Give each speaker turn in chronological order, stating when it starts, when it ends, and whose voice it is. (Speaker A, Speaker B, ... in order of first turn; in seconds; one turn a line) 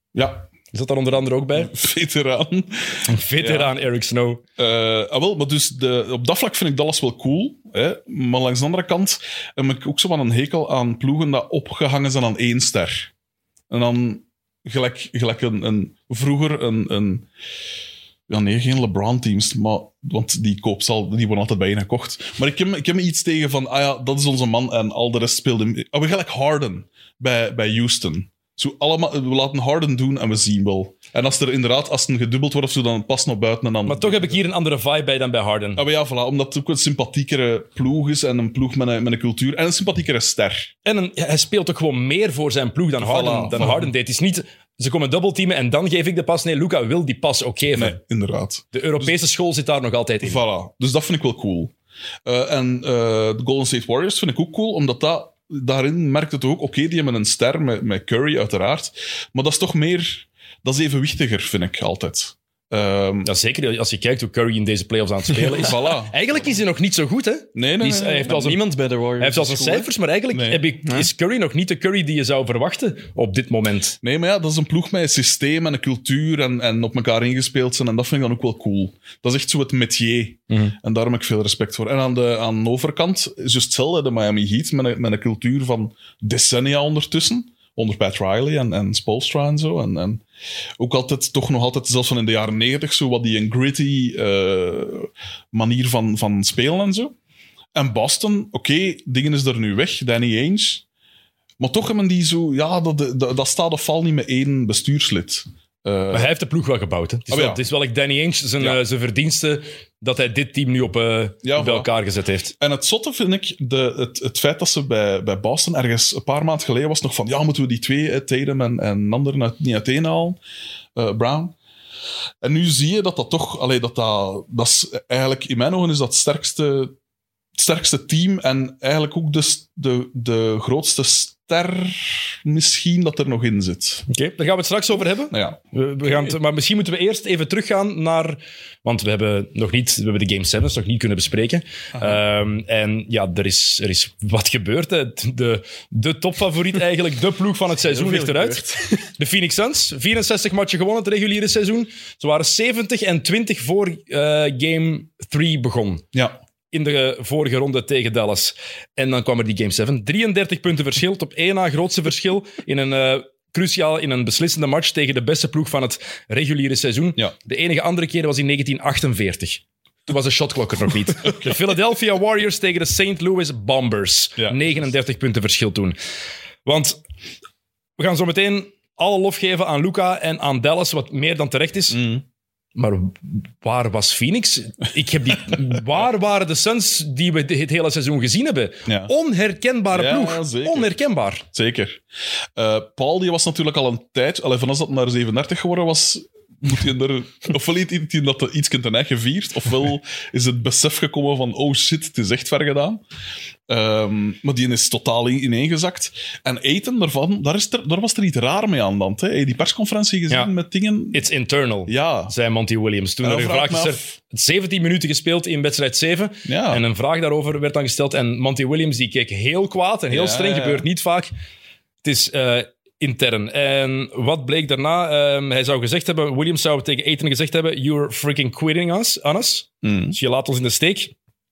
Speaker A: 0.1-0.5
Speaker B: 0.7-1.7
Speaker A: 1.6-3.7
Speaker B: 3.1-4.4
Speaker A: 4.6-13.1
Speaker A: 13.7-17.3
Speaker A: 18.3-34.4
Speaker B: 33.9-35.8
Speaker A: 35.8-40.7
Speaker B: 40.9-48.0
Speaker A: 43.0-43.9
Speaker A: 47.7-49.2
Speaker B: 48.7-50.4
Speaker A: 50.2-51.7
Speaker A: 52.3-63.3
Speaker B: 63.2-68.6
Speaker A: 65.4-66.2
Speaker A: 67.5-68.4
Speaker C: 68.2-69.9
Speaker B: 69.2-74.0
Speaker A: 70.3-70.6
Speaker A: 74.0-90.2
Speaker A: 90.8-97.1
Speaker A: 97.8-100.8
Speaker A: 101.6-106.3
Speaker B: 106.1-112.5
Speaker A: 107.3-107.6
Speaker A: 111.4-111.9
Speaker A: 112.6-120.4
Speaker A: 121.0-121.5
Speaker A: 122.4-127.0
Speaker A: 127.6-134.1
Speaker B: 134.1-156.1
Speaker A: 135.3-135.6
Speaker A: 141.9-142.2
Speaker C: 147.8-149.0
Speaker B: 156.7-176.0
Speaker A: 171.2-171.6
Speaker A: 174.4-174.6
Speaker B: 176.7-177.0
Speaker B: 178.0-182.0
Speaker A: 181.9-182.2
Speaker B: 182.8-191.5
Speaker A: 188.9-189.1
Speaker A: 189.9-190.9
Speaker A: 191.5-192.0
Speaker A: 192.6-203.0
Speaker A: 203.7-211.2
Speaker B: 211.1-221.3
Speaker A: 211.9-212.3
Speaker A: 213.2-214.1
Speaker A: 216.4-216.8
Speaker A: 220.1-220.9
Speaker B: 222.0-231.1
Speaker A: 229.8-230.2